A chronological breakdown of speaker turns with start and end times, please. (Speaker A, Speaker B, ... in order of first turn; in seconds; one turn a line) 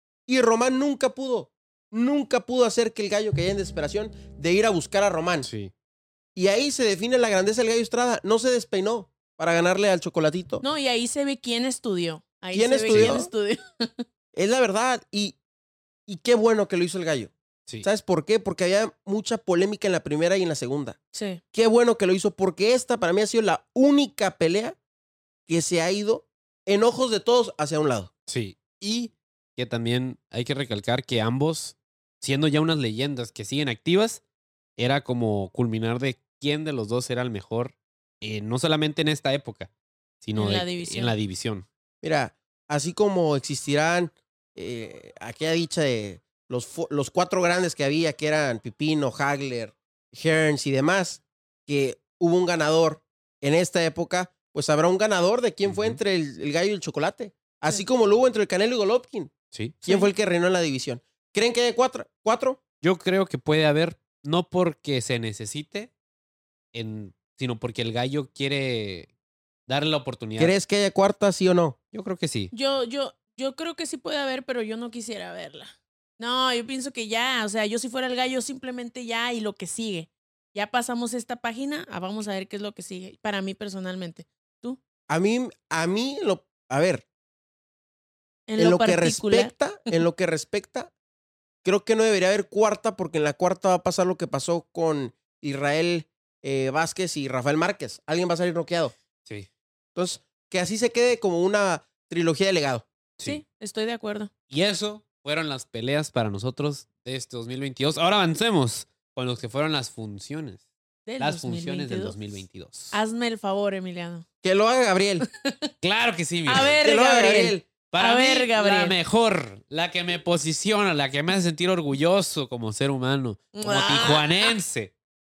Speaker A: 0.3-5.5
Speaker B: 5.4-5.7
Speaker A: 6.3-10.6
Speaker C: 10.6-14.0
Speaker A: 12.5-13.3
Speaker B: 12.9-13.2
Speaker A: 14.3-15.4
Speaker A: 16.1-21.0
Speaker C: 21.1-21.4
Speaker A: 21.5-24.8
Speaker A: 25.5-28.1
Speaker B: 28.3-34.2
Speaker B: 34.8-39.7
Speaker B: 40.2-41.6
Speaker C: 40.3-41.1
Speaker A: 42.0-62.6
Speaker B: 55.7-56.0
Speaker B: 62.8-65.9
Speaker B: 66.7-69.1
Speaker B: 69.7-70.5
Speaker A: 70.4-71.8
Speaker B: 71.9-72.5
Speaker C: 72.5-84.8
Speaker A: 85.1-87.0
Speaker C: 88.5-90.0
Speaker A: 88.6-90.9
Speaker A: 91.6-98.9
Speaker A: 99.9-102.8
Speaker C: 103.2-104.3
Speaker B: 104.5-110.6
Speaker C: 111.0-112.2
Speaker B: 111.2-112.9
Speaker C: 112.9-114.2
Speaker A: 114.4-115.2
Speaker C: 115.4-115.7
Speaker B: 115.8-116.8
Speaker C: 116.5-118.9
Speaker A: 116.8-117.7
Speaker B: 117.9-124.9
Speaker C: 123.5-124.5